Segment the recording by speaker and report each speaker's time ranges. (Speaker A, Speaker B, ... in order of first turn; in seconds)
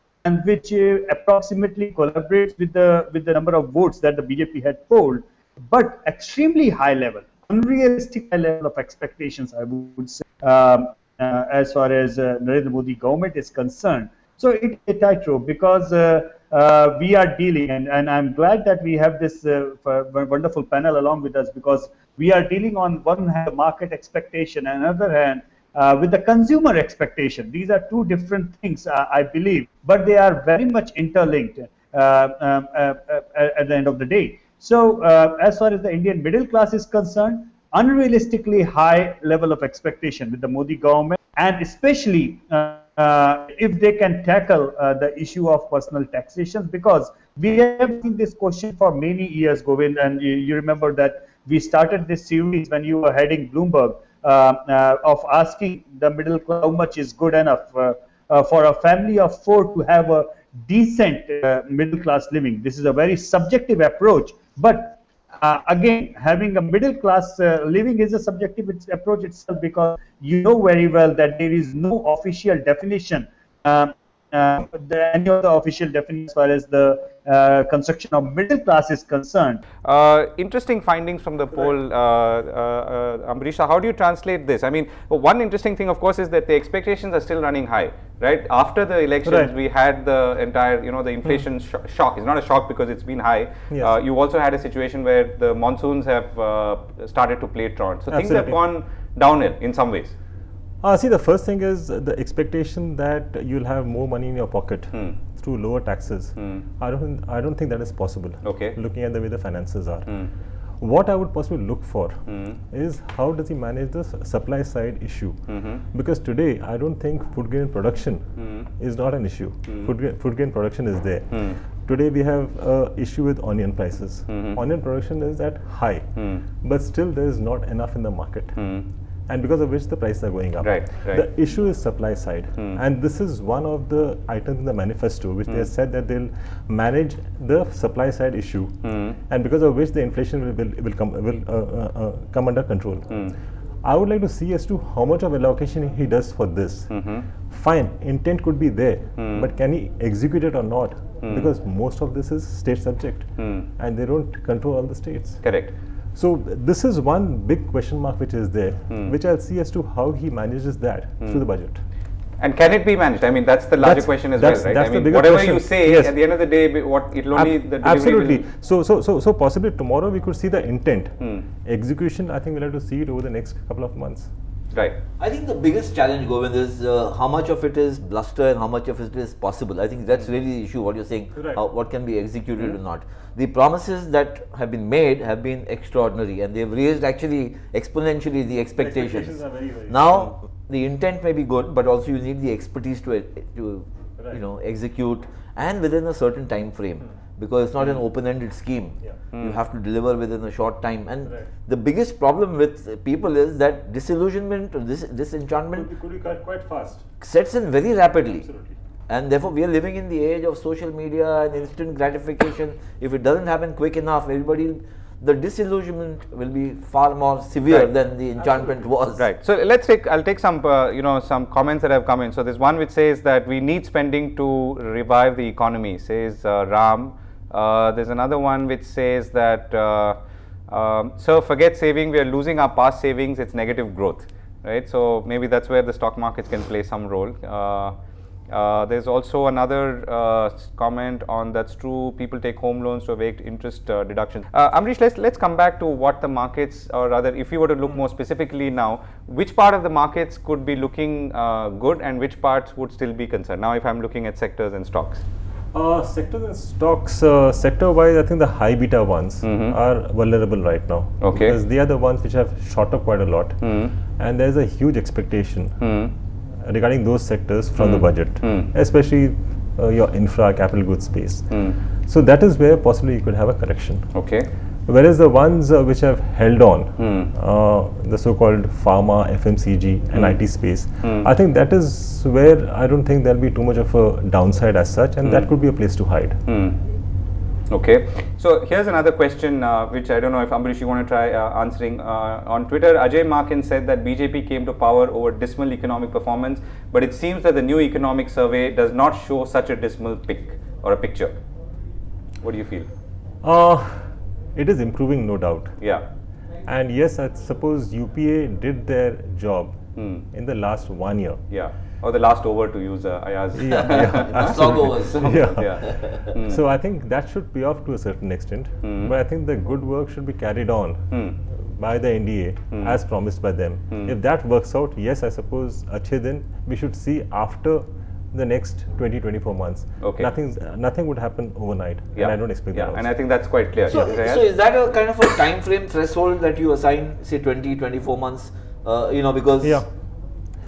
Speaker A: 0.2-79.6
Speaker B: 79.8-100.2, 106.4-106.6, 108.4-108.8, 112.3-112.6, 115.5-115.8, 124.3-124.6, 126.2-126.4, 128.6-128.9, 130.6-131.2, 138.8-139.2, 146.9-147.3, 149.2-149.5, 153.4-153.7, 155.4-155.7, 158.9-159.2, 162.4-168.4, 199.3-199.6, 219.2-230.2, 230.7-237.9, 238.5-255.2, 259.4-259.7, 261.2-261.6, 263.6-263.9, 265.8-266.1, 267.8-268.7, 271.5-271.8, 274.1-274.5, 277.0-277.3, 280.1-280.4, 285.2-285.5, 286.5-286.8, 287.7-301.4, 302.4-302.9, 305.8-306.1, 310.0-310.2, 311.5-316.6, 318.8-319.1, 321.1-321.4, 330.0-330.3, 332.2-334.4
Speaker C: 89.2-89.5, 98.1-98.6, 100.8-110.1, 110.8-115.4, 115.9-126.1, 126.6-128.6, 129.3-138.8, 139.3-143.2, 143.8-146.9, 147.5-155.4, 156.2-161.8, 163.8-166.2, 167.3-174.3, 181.4-181.6, 188.8-190.2, 201.2-201.5, 205.7-207.1, 208.4-208.8, 255.7-263.6, 264.2-265.8, 266.6-271.5, 272.1-274.1, 274.9-286.4, 303.4-305.8, 306.7-309.8, 310.3-311.4, 313.6-333.1, 339.6-339.9
Speaker D: 175.2-189.4, 189.9-205.9, 207.2-208.5, 209.1-219.2, 313.9-316.3, 333.9-339.8